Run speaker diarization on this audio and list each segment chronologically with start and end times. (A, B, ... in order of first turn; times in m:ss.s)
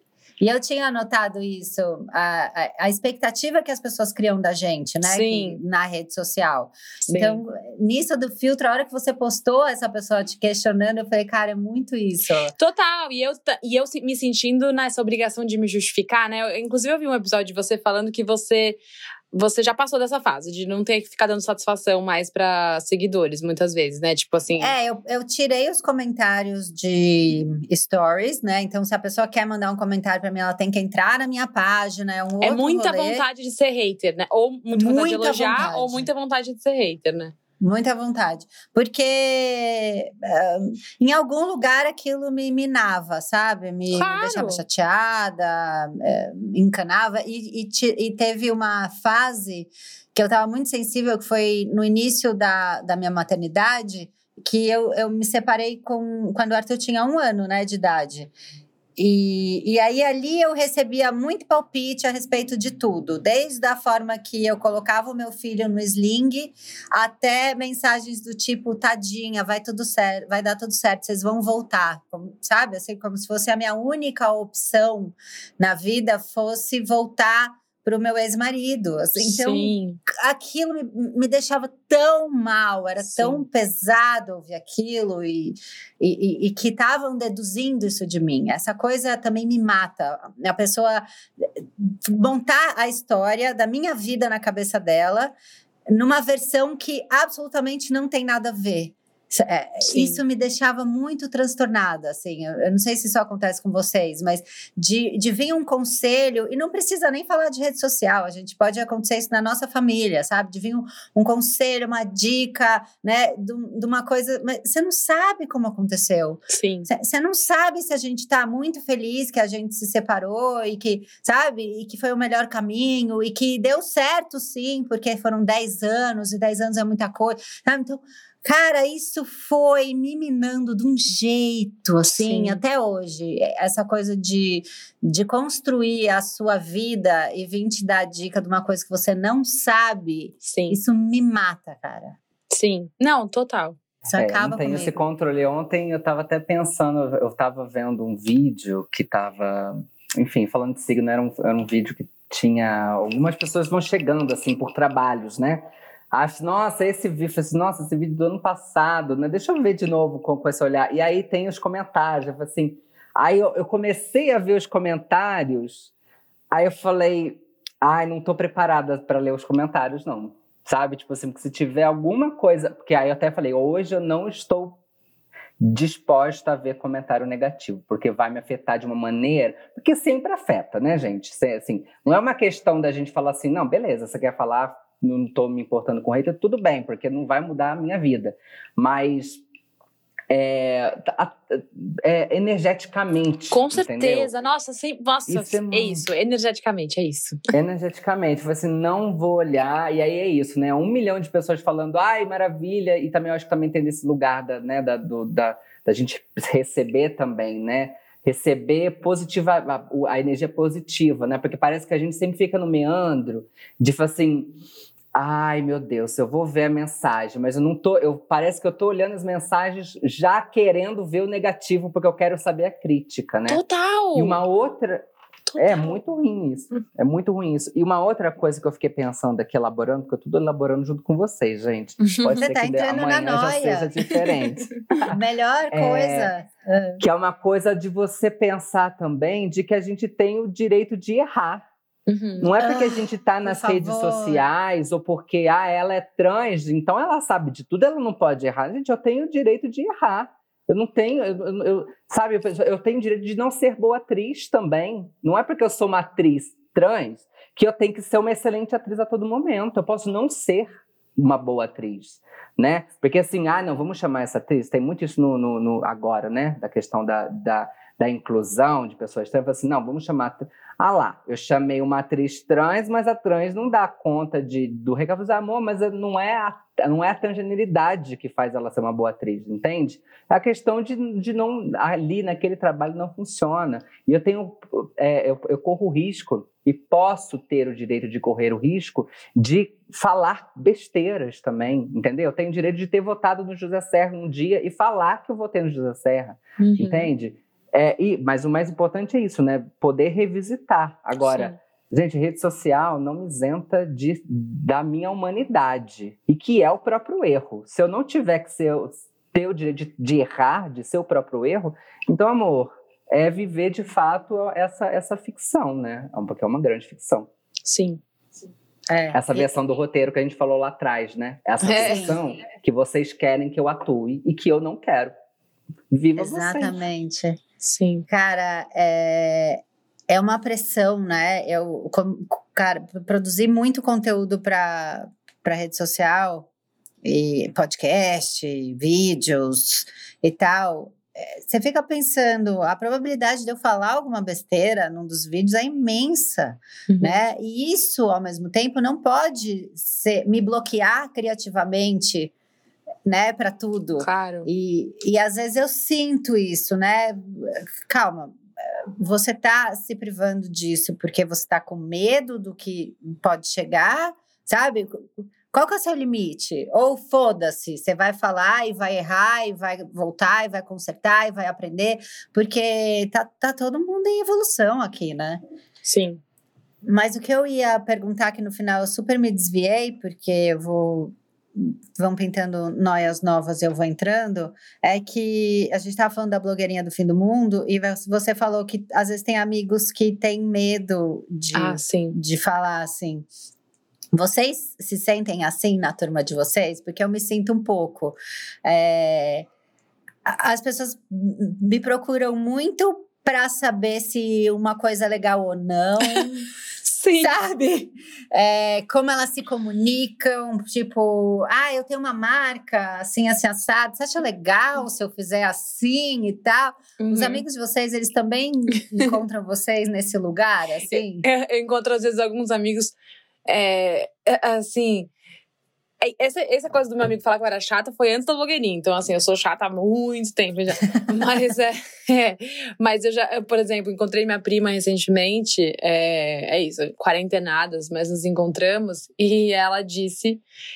0:00.4-0:12.5 A
0:05.0-0:05.6 B
0:07.1-0:07.4 B
0:12.6-0:18.8 B
0:19.3-0:24.7 B
0:24.6-0:33.2 A
0:32.4-0:37.3 B
0:34.8-0:36.1 A
0:37.6-0:58.3 A
0:43.9-0:44.6 B
0:59.0-1:31.0 A
1:19.2-1:20.0 B
1:23.1-1:23.4 B
1:31.6-1:35.3 A
1:35.9-2:22.2 A
1:39.8-1:40.2 B
1:56.5-1:56.9 B
2:12.0-2:12.6 B
2:20.4-2:20.8 B
2:22.5-2:23.8 B
2:24.1-2:25.0 A
2:24.1-2:45.9 C
2:46.5-2:54.8 C
2:55.6-3:09.4 C
3:10.3-3:14.3 C
3:13.5-3:17.5 B
3:15.3-3:16.0 C
3:17.5-3:34.5 C
3:35.1-3:43.6 C
3:43.5-3:44.4 B
3:44.1-3:45.0 C
3:45.5-3:46.0 B
3:45.6-3:55.2 C
3:52.0-3:52.4 B
3:52.3-3:53.9 A
3:55.1-3:57.0 A
3:55.7-3:56.3 C
3:57.0-4:01.6 C
4:02.1-4:02.5 B
4:02.4-5:17.3 C
4:02.6-4:04.4 A
4:56.6-4:57.1 B
5:01.2-5:01.5 B
5:17.6-5:18.0 B
5:18.9-5:19.5 A
5:19.1-5:25.1 C
5:21.6-5:22.1 B
5:21.8-5:22.2 A
5:25.9-5:26.8 C
5:26.2-5:27.4 A
5:27.6-5:28.1 B
5:28.1-5:36.5 A
5:37.0-5:52.3 A
5:46.9-5:47.2 B
5:53.0-5:58.4 A
5:54.0-5:54.5 B
5:59.0-6:15.4 A
6:15.8-6:16.2 B
6:16.8-6:33.3 A
6:31.5-6:32.2 B
6:34.1-6:39.4 A
6:40.2-6:46.5 A
6:46.8-6:47.3 B
6:47.2-7:01.2 A
6:57.0-6:57.4 B
7:00.9-7:02.9 B
7:03.4-7:05.1 B
7:06.0-7:20.4 B